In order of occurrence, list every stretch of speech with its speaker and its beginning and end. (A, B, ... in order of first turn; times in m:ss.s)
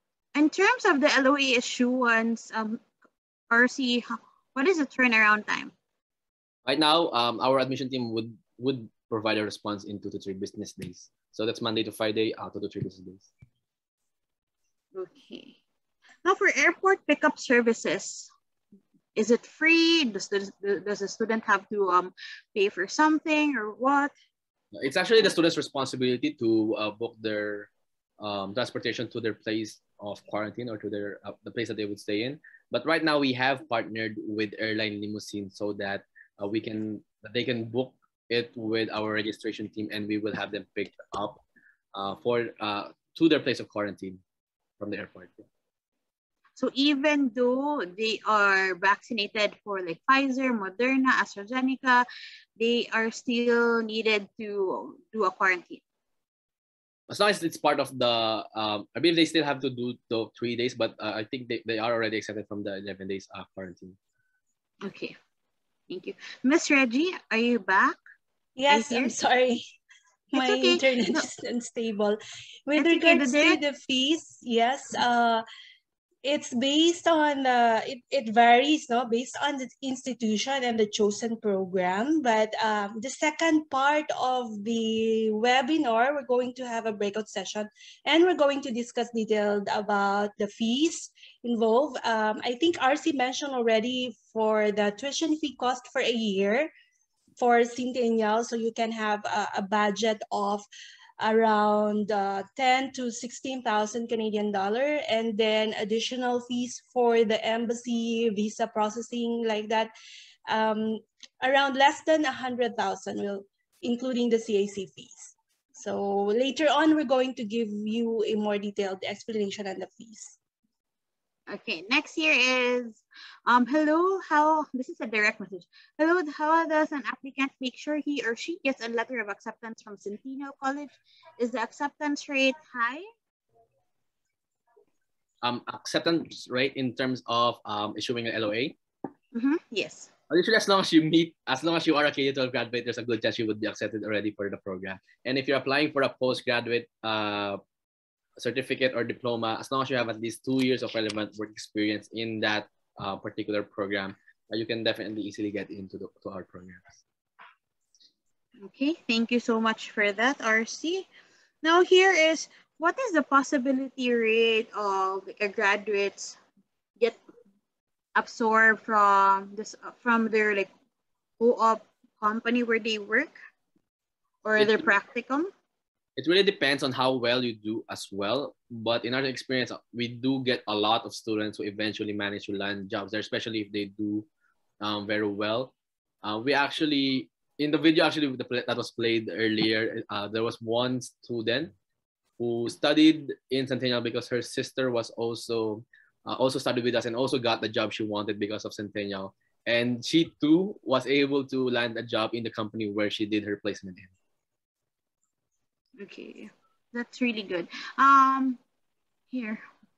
0:00.3-0:02.8 A
0:03.5-0:05.7 A
0:06.6-0:13.3 B
0:14.9-0:15.6 A
0:16.2-0:18.3 A
0:19.2-0:24.1 A
0:24.7-0:27.7 B
0:28.2-0:41.4 B
0:41.9-0:44.2 B
0:44.8-0:45.4 B
0:46.6-0:52.0 A
0:52.6-0:55.8 A
0:57.1-1:04.0 B
1:04.8-1:05.2 A
1:05.9-1:08.0 A
1:08.6-1:09.6 C
1:08.7-1:09.1 A
1:10.3-1:15.4 C
1:10.3-1:11.3 A
1:12.8-1:13.6 A
1:16.2-1:36.7 C
1:37.4-1:40.6 C
1:41.2-1:49.9 C
1:50.5-2:00.4 C
2:01.5-2:13.0 A
2:15.4-2:18.8 B
2:19.3-2:20.1 A
2:20.3-2:27.6 B
2:28.4-2:37.0 B
2:38.6-2:41.1 A
2:41.6-2:46.4 A
2:48.1-2:50.7 A
2:51.4-2:53.4 A
2:54.4-2:55.5 A
2:54.6-2:54.9 B
2:56.2-3:04.3 B
3:04.8-3:05.7 B
3:06.2-3:11.7 B
3:12.4-3:24.1 B
3:26.0-3:28.6 A
3:29.3-3:29.6 A